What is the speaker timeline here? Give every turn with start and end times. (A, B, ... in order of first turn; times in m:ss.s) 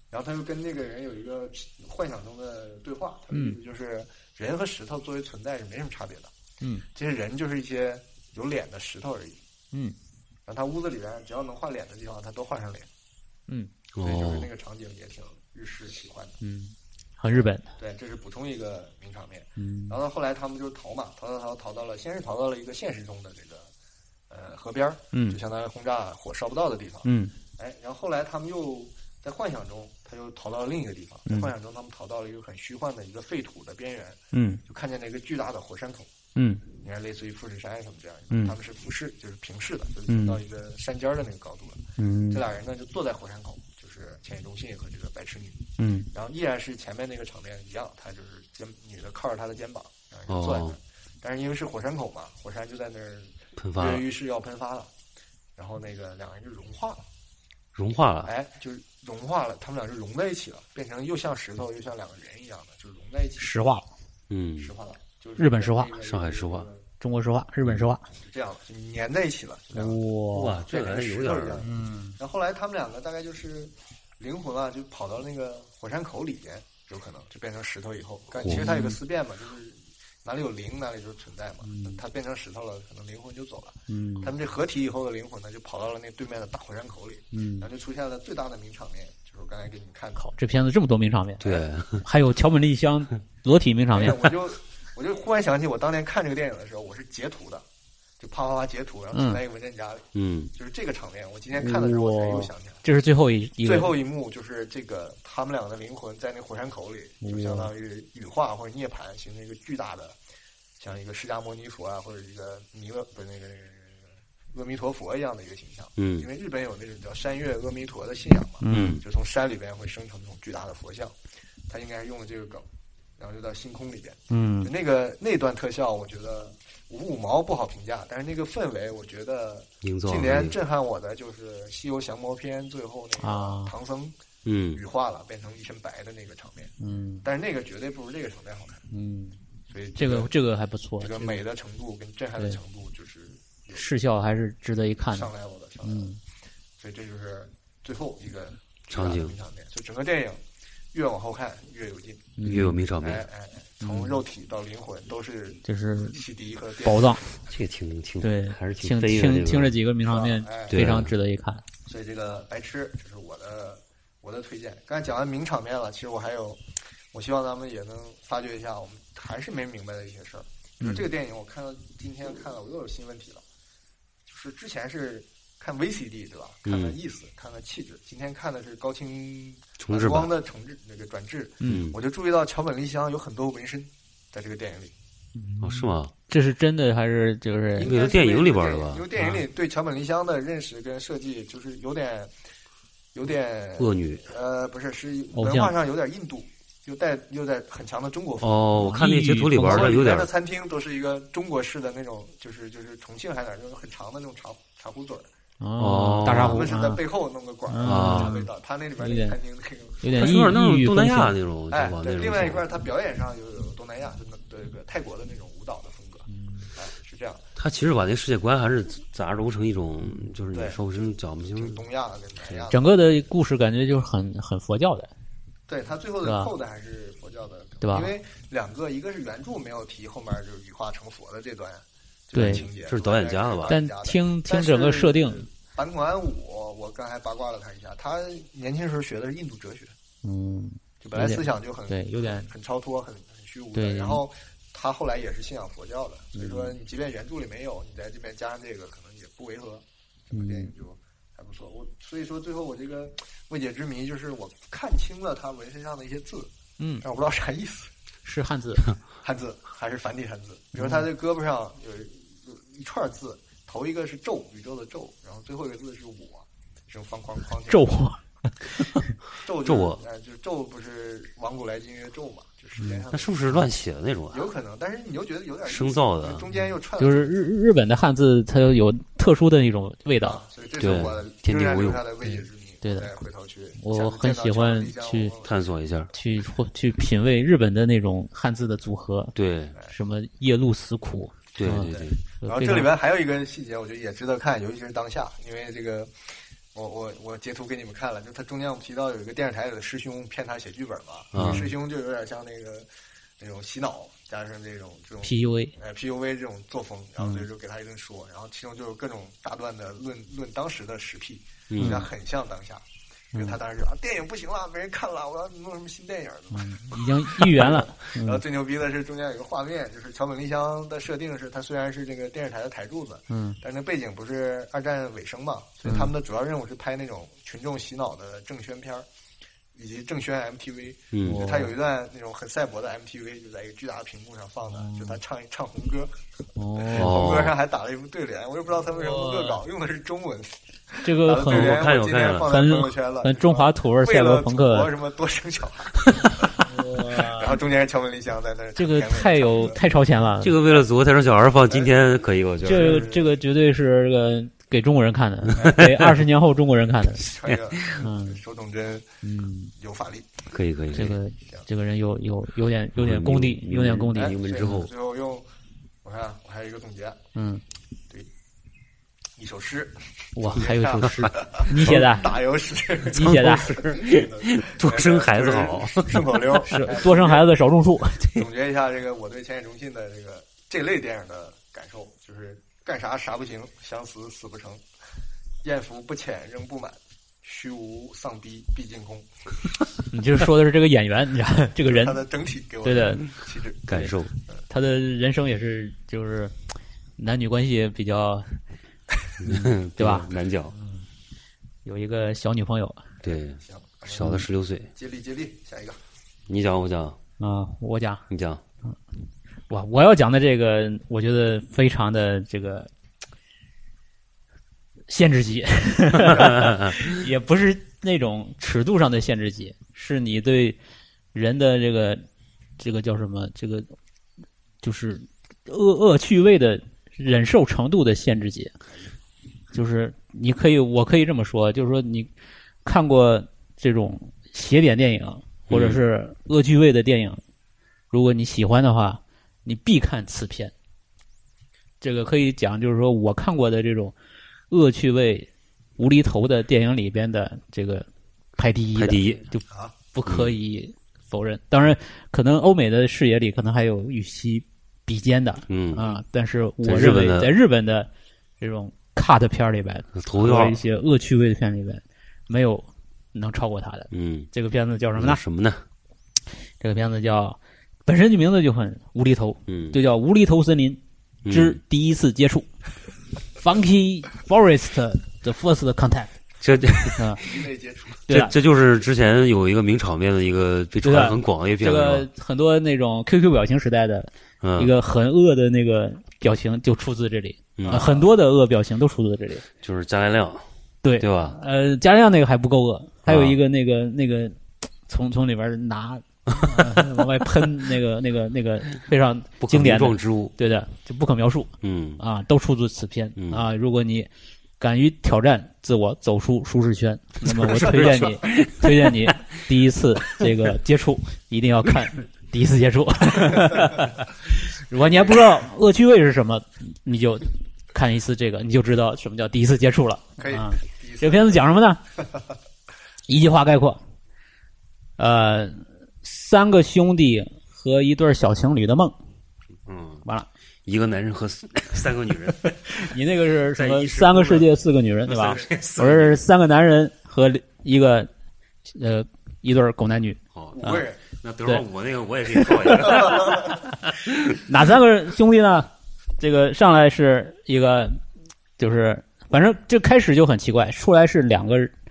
0:00.1-0:06.3 A
0:03.3-0:03.6 B
0:06.9-0:09.4 A
0:10.5-0:12.9 A
0:14.0-0:14.5 C
0:14.0-0:16.4 A
0:16.4-0:17.6 B
0:17.3-0:23.7 A
0:19.6-0:20.0 B
0:24.3-0:36.1 A
0:25.1-0:25.4 B
0:27.0-0:27.3 B
0:34.3-0:34.6 B
0:36.4-0:36.6 B
0:36.7-0:54.9 A
0:40.1-0:40.4 B
0:42.0-0:42.4 B
0:45.8-0:46.1 B
0:50.3-0:50.8 C
0:53.6-0:54.1 C
0:55.6-0:57.0 A
0:57.8-0:58.3 C
0:58.2-1:03.5 A
1:03.4-1:03.9 B
1:04.3-1:04.7 C
1:04.6-1:06.9 A
1:05.4-1:05.9 B
1:06.0-1:06.7 C
1:07.0-1:08.0 B
1:08.2-1:30.3 A
1:09.8-1:10.6 B
1:10.3-1:11.6 C
1:11.6-1:12.2 B
1:18.4-1:18.7 C
1:18.5-1:19.0 B
1:21.6-1:22.0 B
1:23.9-1:24.3 B
1:27.3-1:27.7 B
1:30.2-1:34.3 B
1:31.4-1:32.0 C
1:33.9-1:37.6 A
1:38.2-1:42.8 A
1:39.1-1:39.4 B
1:40.1-1:40.5 C
1:41.6-1:43.9 B
1:43.6-1:50.2 A
1:47.2-1:47.7 B
1:50.8-2:01.1 A
1:56.0-1:56.3 C
1:58.6-1:59.0 B
1:58.7-1:59.0 C
2:01.7-2:02.7 A
2:03.2-2:14.1 A
2:04.3-2:04.7 B
2:09.8-2:10.6 C
2:13.2-2:13.7 B
2:14.4-2:14.8 C
2:14.7-2:18.8 A
2:16.8-2:17.2 B
2:18.9-2:19.4 B
2:19.7-2:20.3 A
2:20.0-2:21.4 B
2:21.0-2:23.9 A
2:23.7-2:25.3 B
2:25.1-2:26.1 A
2:25.8-2:26.2 B
2:26.8-2:30.4 A
2:28.9-2:29.3 C
2:30.9-2:32.4 A
2:32.4-2:32.8 B
2:32.4-2:33.3 C
2:33.0-2:37.2 A
2:33.8-2:34.2 B
2:35.6-2:36.2 B
2:36.8-2:37.3 B
2:37.5-2:39.8 C
2:38.2-2:41.6 B
2:40.1-2:40.9 A
2:40.7-2:41.1 C
2:41.8-2:53.4 A
2:54.3-3:04.9 A
2:56.7-2:57.0 C
2:59.8-3:00.3 C
3:01.6-3:01.9 B
3:01.7-3:02.0 C
3:05.4-3:07.9 B
3:05.6-3:06.1 C
3:07.8-3:12.3 A
3:07.8-3:09.1 C
3:09.2-3:09.4 B
3:13.1-3:18.6 A
3:13.8-3:14.3 C
3:15.3-3:15.7 B
3:18.4-3:20.3 C
3:18.8-3:20.0 B
3:19.6-3:25.3 A
3:25.6-3:27.0 B
3:25.8-3:26.6 C
3:26.3-3:30.5 A
3:27.7-3:29.4 B
3:27.8-3:28.4 C
3:30.0-3:31.4 B
3:30.2-3:32.7 C
3:31.7-3:37.5 A
3:36.3-3:36.7 B
3:37.6-3:41.8 C
3:40.5-3:40.8 A
3:41.5-3:42.8 A
3:42.7-3:45.1 B
3:45.7-3:59.9 A
3:46.2-3:46.5 B
3:47.8-3:48.1 B
3:52.3-3:52.6 B
3:52.4-3:53.8 C
3:53.7-3:55.5 B
4:00.2-4:02.5 B
4:01.0-4:17.9 A
4:03.8-4:04.2 B
4:06.4-4:06.8 B
4:10.3-4:10.7 B
4:16.8-4:17.0 B
4:18.2-4:18.9 B
4:19.2-4:28.0 A
4:20.8-4:21.0 B
4:27.7-4:29.1 B
4:29.4-4:33.7 A
4:29.6-4:30.0 C
4:32.8-4:33.0 B
4:33.1-4:34.5 C
4:34.3-4:37.4 A
4:35.7-4:36.5 C
4:37.0-4:40.4 B
4:40.2-4:45.6 A
4:40.8-4:42.0 C
4:42.2-4:43.1 B
4:43.8-4:45.3 B
4:45.4-4:46.1 C
4:46.1-4:49.3 B
4:49.4-4:49.8 C
4:49.9-4:52.9 B
4:51.6-4:52.2 C
4:51.8-5:12.8 A
5:01.3-5:01.7 C
5:01.4-5:01.7 B
5:05.2-5:05.7 B
5:07.2-5:07.5 B
5:11.7-5:12.0 C
5:11.8-5:12.1 B
5:13.3-5:29.1 A
5:16.5-5:18.4 B
5:23.3-5:23.6 B
5:25.8-5:26.1 B
5:29.7-5:36.2 A
5:31.1-5:31.4 C
5:31.2-5:31.7 B
5:34.7-5:35.2 B
5:36.6-5:37.3 B
5:36.8-5:49.8 A
5:36.9-5:37.5 C
5:38.9-5:39.6 B
5:41.0-5:41.9 B
5:41.4-5:42.5 C
5:42.4-5:44.9 B
5:46.6-5:47.6 B
5:48.8-5:50.6 B
5:50.4-5:53.1 C
5:51.7-5:53.3 A
5:52.6-5:57.2 B
5:55.6-5:56.0 C
5:57.2-5:59.1 A
5:57.4-5:58.0 C
5:58.0-5:58.4 B
5:59.2-5:59.7 B
5:59.8-6:00.3 A
6:00.5-6:01.2 C
6:00.9-6:04.4 B
6:03.0-6:04.9 C
6:04.1-6:05.5 A
6:06.0-6:07.2 A
6:07.4-6:07.6 B
6:09.4-6:17.5 A
6:10.4-6:12.4 B
6:13.0-6:14.0 B
6:13.2-6:16.6 C
6:16.5-6:18.3 B
6:18.2-6:24.8 A
6:25.6-6:29.3 A
6:30.1-6:32.2 B
6:31.8-6:34.6 A
6:32.8-6:33.3 B
6:33.9-6:34.3 C
6:34.7-6:36.5 B
6:37.2-6:38.5 B
6:39.4-6:40.7 C
6:39.4-6:40.3 B
6:41.8-6:43.1 B
6:43.2-6:44.9 C
6:43.2-6:44.4 A
6:45.0-6:46.0 A
6:46.5-6:47.2 C
6:47.4-6:48.2 B
6:48.3-6:48.6 C
6:49.7-6:52.9 B
6:55.1-7:00.8 B
6:56.3-6:57.0 C
7:01.3-7:02.2 B
7:02.8-7:04.0 B
7:04.8-7:08.7 B
7:09.7-7:12.3 B
7:12.8-7:17.4 B
7:15.7-7:16.0 C
7:18.1-7:20.7 B
7:22.0-7:24.1 B
7:24.7-7:38.1 B
7:29.0-7:29.5 C
7:30.3-7:30.5 C
7:35.7-7:36.1 C
7:36.8-7:37.5 C
7:38.6-7:45.4 B
7:40.1-7:40.8 C
7:44.1-7:44.5 C
7:45.2-7:45.8 C
7:46.8-7:52.7 B
7:49.7-7:50.0 C
7:51.4-7:51.8 C
7:53.6-7:56.4 B
7:56.6-7:57.5 C
7:57.2-7:57.4 B
7:57.4-7:58.2 A
7:58.3-7:58.5 B
7:58.3-8:02.3 C
8:01.0-8:09.6 B
8:04.6-8:04.9 C
8:07.8-8:08.1 C
8:07.8-8:08.3 A
8:09.8-8:10.6 C
8:11.0-8:24.3 B
8:11.2-8:11.6 C
8:13.3-8:13.6 C
8:19.6-8:20.5 C
8:21.8-8:22.2 C
8:23.4-8:23.6 C
8:24.8-8:42.0 B
8:27.4-8:29.4 C
8:40.4-8:41.6 A
8:43.3-8:44.0 B
8:45.2-8:49.1 B
8:49.9-8:50.2 C
8:50.9-8:53.0 C
8:52.9-8:58.3 B
8:53.8-8:54.7 C
8:55.2-8:56.4 C
8:58.9-9:01.1 B
9:00.5-9:03.8 C
9:00.8-9:01.2 A
9:02.6-9:03.8 B
9:03.2-9:03.5 A
9:04.3-9:04.6 C
9:04.6-9:08.2 B
9:08.8-9:11.9 B